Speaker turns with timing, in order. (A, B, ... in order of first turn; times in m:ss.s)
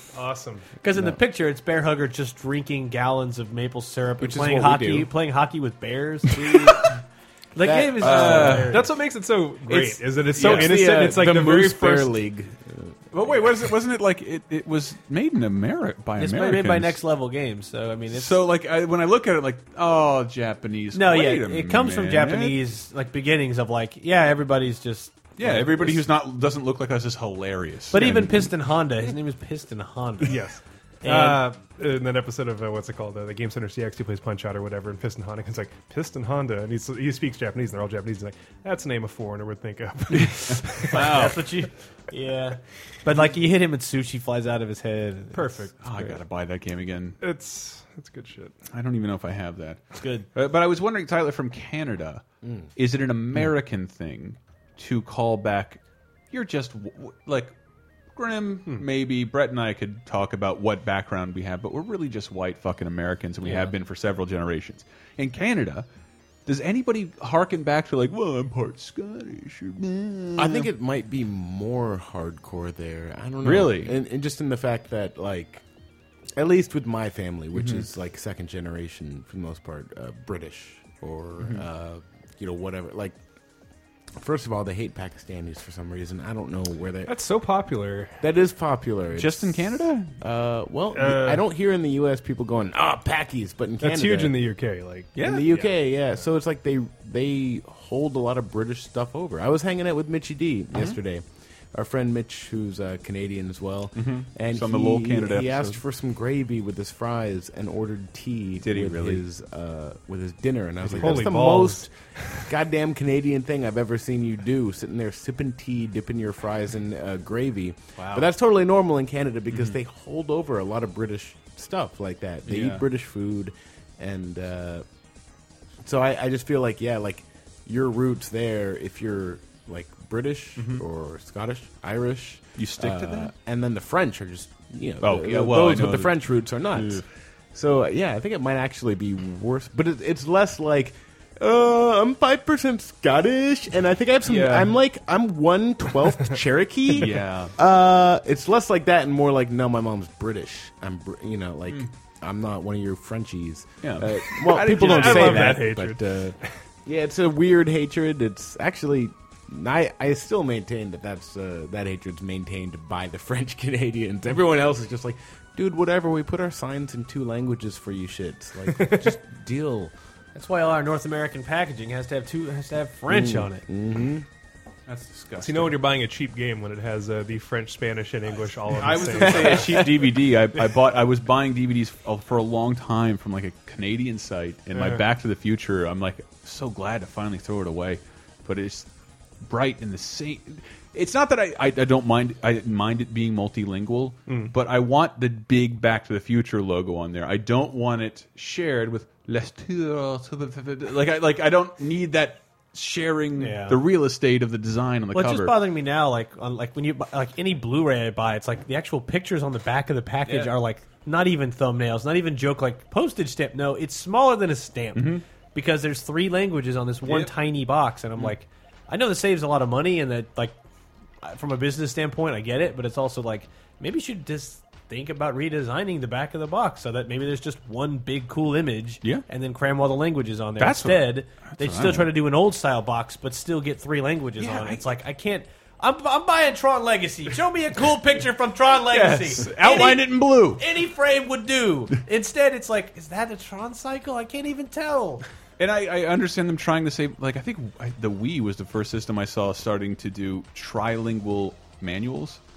0:00.1-0:00.7 A
0:00.8-0:06.9 B
0:00.9-0:01.2 C
0:04.2-0:05.1 C
0:07.5-0:08.9 B
0:07.6-0:08.7 C
0:08.0-0:08.8 D
0:08.7-0:12.2 A
0:10.3-0:10.9 D
0:10.3-0:13.0 C
0:13.1-0:17.0 D
0:16.2-0:18.4 B
0:18.1-0:22.6 D
0:20.9-0:26.0 B
0:25.4-0:28.5 D
0:27.9-0:30.4 B
0:30.2-0:41.2 A
0:31.0-0:31.4 B
0:40.9-0:41.4 D
0:40.9-0:46.1 B
0:45.3-0:45.8 A
0:45.8-0:47.2 D
0:47.2-0:48.6 A
0:48.7-0:52.2 D
0:50.0-0:50.3 B
0:52.8-0:57.5 D
0:58.1-1:05.9 D
1:06.4-1:10.7 D
1:10.4-1:15.6 C
1:13.4-1:13.9 D
1:16.4-1:23.2 C
1:17.5-1:17.8 D
1:24.2-1:27.2 C
1:27.0-1:28.3 A
1:28.2-1:29.7 C
1:29.1-1:30.1 D
1:30.2-1:34.4 C
1:30.9-1:31.4 A
1:33.8-1:36.2 A
1:35.2-1:51.9 C
1:40.7-1:41.0 D
1:44.0-1:45.8 D
1:48.6-1:49.2 D
1:50.8-1:51.9 A
1:50.8-1:51.1 D
1:52.5-2:04.8 C
1:58.0-1:58.2 D
2:02.4-2:02.8 D
2:05.8-2:36.3 C
2:10.6-2:10.8 D
2:12.6-2:13.3 D
2:15.0-2:17.0 D
2:24.2-2:24.7 D
2:26.9-2:27.5 D
2:33.8-2:35.6 D
2:34.4-2:36.4 A
2:36.8-2:49.9 C
2:48.6-2:49.2 A
2:50.3-2:53.6 B
2:53.1-2:54.2 C
2:54.9-2:55.8 D
2:55.4-3:00.0 A
2:58.7-3:08.9 D
2:59.4-2:59.8 C
3:04.7-3:05.0 A
3:09.4-3:25.6 D
3:14.3-3:14.5 A
3:23.4-3:23.8 B
3:25.1-3:40.6 B
3:30.2-3:30.6 D
3:34.9-3:35.2 D
3:37.0-3:37.3 D
3:41.2-4:05.2 B
3:50.6-3:52.1 D
3:54.4-3:54.9 D
3:58.8-4:00.6 D
4:05.6-4:12.4 D